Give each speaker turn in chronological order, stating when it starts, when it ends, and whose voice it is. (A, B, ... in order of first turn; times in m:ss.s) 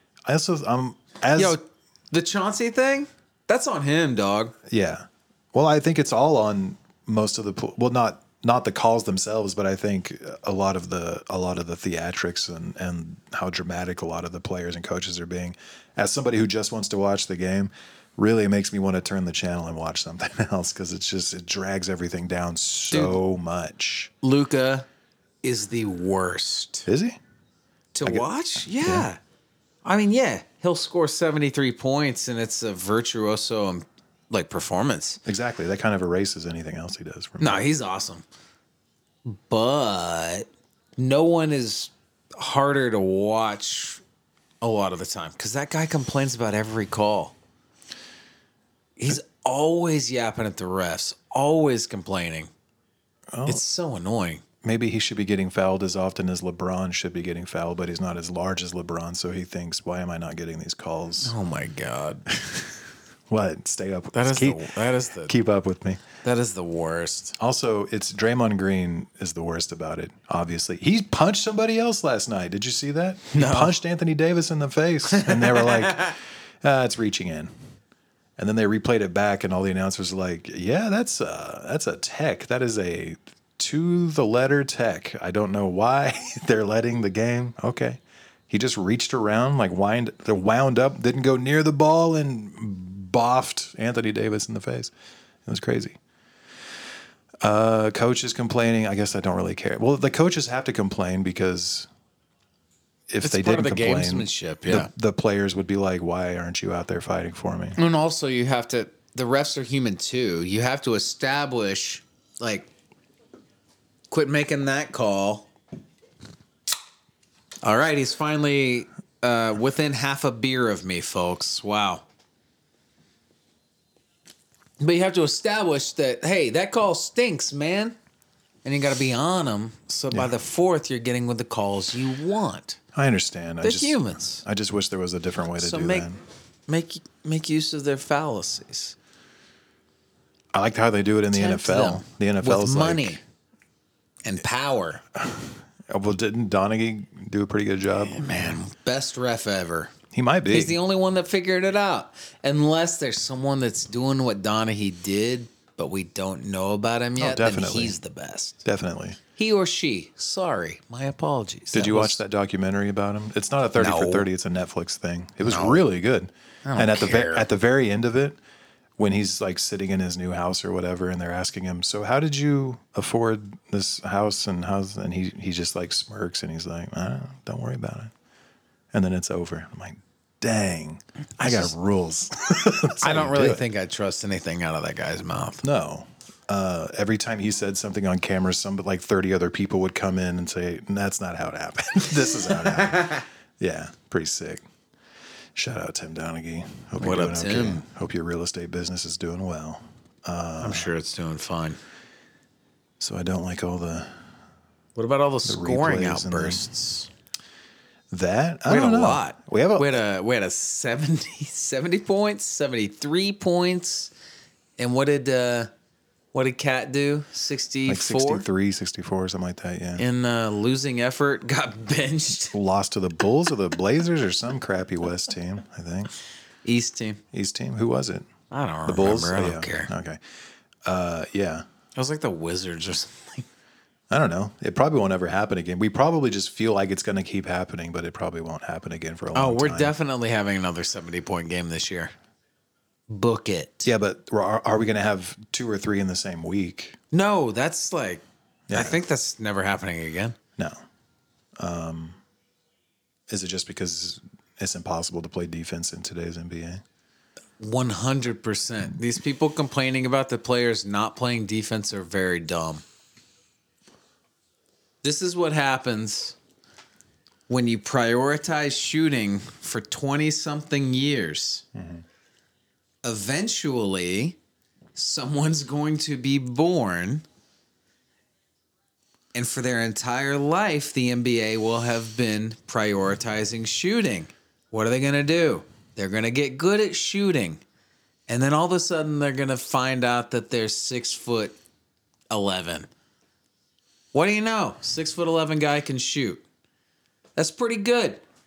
0:00.3-0:01.6 A
0:01.4-0:04.6 B
0:04.7-0:24.1 A
0:22.9-0:23.2 B
0:24.2-0:24.9 B
0:25.4-0:26.9 B
0:26.9-0:27.2 A
0:27.9-0:29.2 B
0:28.0-0:29.1 A
0:29.8-0:35.2 B
0:35.3-0:37.6 A
0:37.4-0:38.2 B
0:39.2-0:44.0 B
0:44.6-0:47.4 B
0:49.0-0:52.5 B
0:53.3-0:53.6 A
0:53.5-0:54.4 B
0:54.6-1:01.3 A
1:01.2-1:02.7 B
1:03.3-1:04.7 A
1:04.1-1:05.3 B
1:05.2-1:06.0 A
1:06.2-1:07.4 B
1:07.4-1:17.5 A
1:13.3-1:13.8 B
1:15.1-1:16.2 B
1:18.4-1:34.9 A
1:35.4-1:36.0 A
1:37.4-1:41.9 A
1:43.1-1:47.8 A
1:43.2-1:44.9 B
1:47.8-1:52.7 B
1:54.1-1:55.5 B
1:57.6-2:02.0 B
2:04.8-2:08.0 B
2:08.6-2:12.8 B
2:12.9-2:16.2 A
2:13.6-2:14.4 B
2:15.6-2:16.1 B
2:16.7-2:19.0 B
2:20.5-2:23.2 A
2:21.3-2:23.2 B
2:24.2-2:25.0 B
2:25.2-2:28.6 A
2:28.0-2:29.9 B
2:30.1-2:30.8 A
2:30.5-2:38.6 B
2:37.2-2:38.0 A
2:38.6-2:39.2 A
2:39.4-2:42.2 B
2:41.7-2:48.4 A
2:43.8-2:44.3 B
2:45.5-2:45.8 B
2:46.6-2:47.5 B
2:49.0-2:58.1 A
2:58.9-3:03.6 A
3:01.4-3:01.7 B
3:03.0-3:05.6 B
3:05.6-3:14.6 A
3:12.2-3:13.3 B
3:15.6-3:20.9 A
3:17.0-3:17.8 B
3:20.6-3:21.8 B
3:23.0-3:24.2 A
3:25.0-3:27.1 B
3:25.4-3:26.7 A
3:28.1-3:30.0 A
3:28.7-3:34.1 B
3:34.8-3:35.7 B
3:36.3-3:38.4 B
3:37.9-3:40.0 A
3:40.0-3:42.5 B
3:42.5-3:46.1 A
3:46.6-3:47.2 B
3:47.3-3:48.3 A
3:48.5-3:49.9 B
3:48.9-3:50.2 A
3:50.9-3:51.6 A
3:52.0-3:53.5 B
3:54.1-4:00.0 A
3:59.4-4:02.1 B
4:03.1-4:03.9 B
4:03.8-4:07.0 A
4:07.1-4:10.4 B
4:08.7-4:09.0 A
4:11.6-4:12.2 A
4:13.3-4:16.8 A
4:17.6-4:22.8 B
4:25.0-4:26.4 B
4:27.5-4:31.6 B
4:31.8-4:32.0 A
4:33.0-4:34.4 B
4:35.0-4:37.2 B
4:39.3-4:47.6 B
4:48.3-4:51.6 B
4:52.3-4:52.9 B
4:54.1-4:56.4 B
4:57.4-4:58.2 B